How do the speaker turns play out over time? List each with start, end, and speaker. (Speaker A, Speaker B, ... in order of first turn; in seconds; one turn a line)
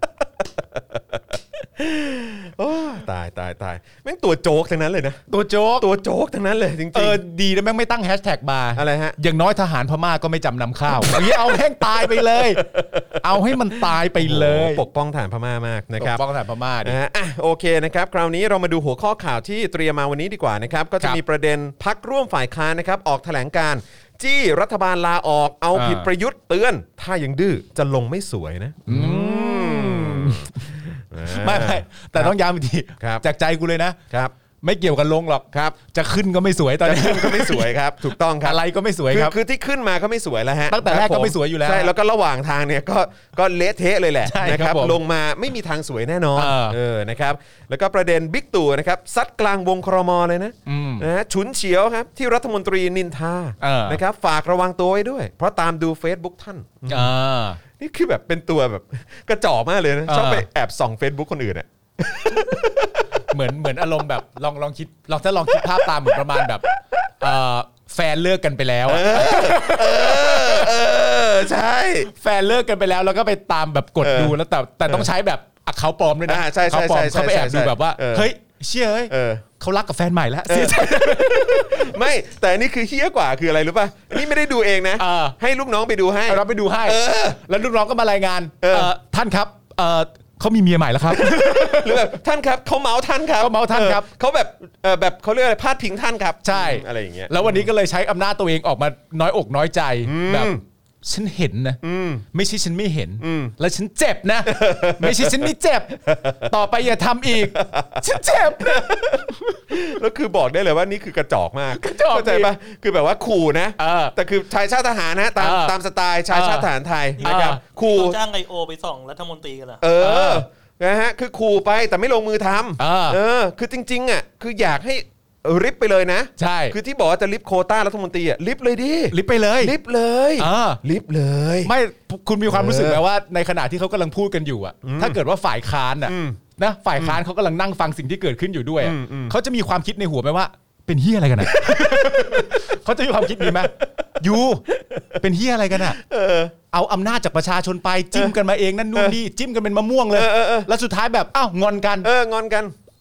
Speaker A: 0.7-5.2
Speaker B: 5.3-5.9
Speaker A: 5.8-7.2
Speaker B: 6.9-14.8
Speaker A: 8.8-9.2
Speaker A: 10.9-16.2
Speaker B: 16.0-17.0
Speaker A: 16.8-32.4
Speaker B: 25.7-26.1
Speaker B: 28.9-34.0
Speaker A: 33.0-33.2
Speaker B: 34.6-39.3
Speaker A: 36.8-57.1
Speaker B: 40.7-41.9
Speaker B: 44.2-45.0
Speaker B: 46.4-46.8
Speaker B: 50.6-51.1
Speaker B: 53.6-54.0
Speaker B: 56.9-57.6
Speaker A: 57.8-63.0
Speaker B: 60.1-60.5
Speaker B: 63.3-66.7
Speaker A: 65.5-67.0
Speaker B: 67.2-70.7
Speaker A: 68.8-72.1
Speaker B: 72.1-81.9
Speaker A: 74.0-75.1
Speaker A: 76.3-78.3
Speaker A: 79.1-79.5
Speaker A: 80.5-87.4
Speaker B: 85.0-85.3
Speaker B: 86.3-92.2
Speaker A: 88.6-88.9
Speaker A: 91.1-97.7
Speaker B: 93.4-94.1
Speaker B: 96.4-101.8
Speaker A: 100.0-100.6
Speaker A: 101.8-102.2
Speaker B: 102.3-109.6
Speaker A: 103.2-103.5
Speaker A: 104.4-106.5
Speaker A: 107.4-118.2
Speaker B: 111.8-112.5
Speaker B: 113.8-114.1
Speaker B: 115.4-115.7
Speaker B: 116.3-116.7
Speaker C: 117.2-119.8
Speaker B: 117.2-117.6
Speaker A: 119.8-131.7
Speaker B: 120.0-120.4
Speaker B: 122.8-123.2
Speaker B: 126.4-126.8
Speaker B: 129.1-129.7
Speaker B: 130.4-130.8
Speaker B: 131.6-144.6
Speaker A: 132.5-133.0
Speaker A: 134.8-135.2
Speaker A: 136.1-136.4
Speaker A: 138.8-139.3
Speaker A: 141.4-142.6
Speaker A: 143.4-143.8
Speaker A: 144.7-145.2
Speaker B: 145.2-146.0
Speaker A: 145.9-146.5
Speaker B: 146.7-152.1
Speaker A: 150.1-150.7
Speaker A: 152.0-152.7